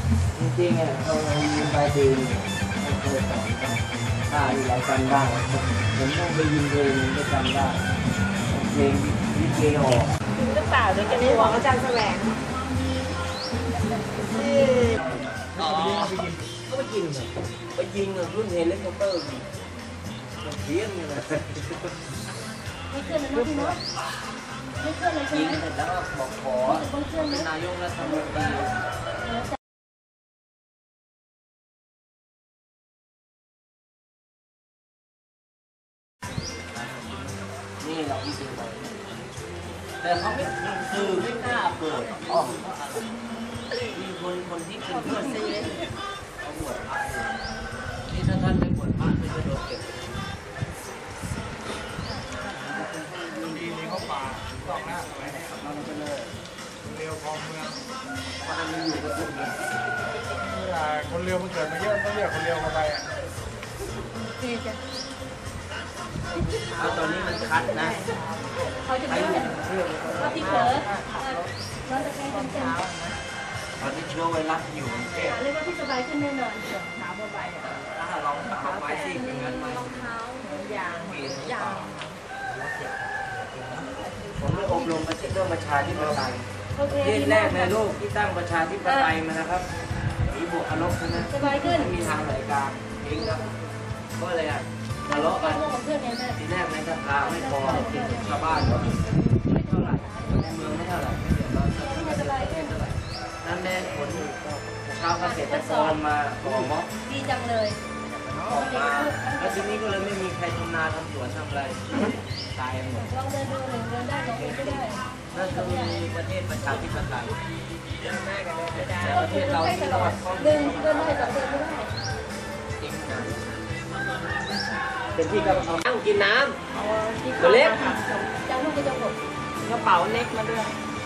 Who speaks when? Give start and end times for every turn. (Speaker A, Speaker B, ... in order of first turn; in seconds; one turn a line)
Speaker A: 0.3-3.8
Speaker A: 4.3-7.8
Speaker A: 8.5-10.1
Speaker B: 10.4-12.3
Speaker A: 11.1-11.4
Speaker B: 14.3-14.9
Speaker A: 15.6-19.5
Speaker C: 15.6-16.3
Speaker A: 20.4-21.9
Speaker D: 22.9-23.8
Speaker D: 24.8-25.6
Speaker A: 25.3-28.7
Speaker D: 26.6-27.5
Speaker D: 28.4-28.7
Speaker A: 37.8-39.0
Speaker A: 40.0-42.7
Speaker B: 41.1-41.7
Speaker A: 43.9-45.8
Speaker A: 46.4-47.4
Speaker A: 48.0-50.1
Speaker A: 52.7-53.5
Speaker C: 53.5-55.4
Speaker A: 55.2-56.3
Speaker C: 56.8-57.8
Speaker A: 58.4-59.7
Speaker C: 60.4-63.1
Speaker D: 64.2-64.8
Speaker B: 66.4-68.3
Speaker A: 66.8-68.1
Speaker D: 68.8-69.5
Speaker A: 69.0-71.0
Speaker D: 70.2-72.8
Speaker B: 70.2-71.4
Speaker B: 72.2-73.2
Speaker A: 73.8-75.4
Speaker D: 75.2-76.8
Speaker B: 76.8-77.8
Speaker A: 77.6-80.0
Speaker B: 78.5-82.1
Speaker A: 81.0-81.9
Speaker C: 82.5-82.9
Speaker C: 83.5-83.8
Speaker A: 84.4-86.5
Speaker B: 84.4-85.0
Speaker D: 86.7-87.8
Speaker A: 87.0-89.7
Speaker A: 90.2-93.5
Speaker D: 91.3-92.0
Speaker A: 94.2-95.8
Speaker D: 95.0-96.4
Speaker A: 96.3-99.0
Speaker D: 97.2-100.6
Speaker A: 99.5-106.9
Speaker D: 101.7-102.7
Speaker B: 104.2-104.5
Speaker D: 105.2-106.0
Speaker D: 107.0-107.8
Speaker A: 108.4-113.1
Speaker D: 108.4-110.1
Speaker D: 113.0-116.0
Speaker A: 114.3-117.4
Speaker B: 118.0-119.6
Speaker A: 118.9-121.7
Speaker D: 119.1-121.9
Speaker A: 122.8-123.6
Speaker A: 125.1-126.6
Speaker B: 126.7-128.2
Speaker A: 127.4-127.9
Speaker D: 128.4-129.2
Speaker B: 129.6-130.8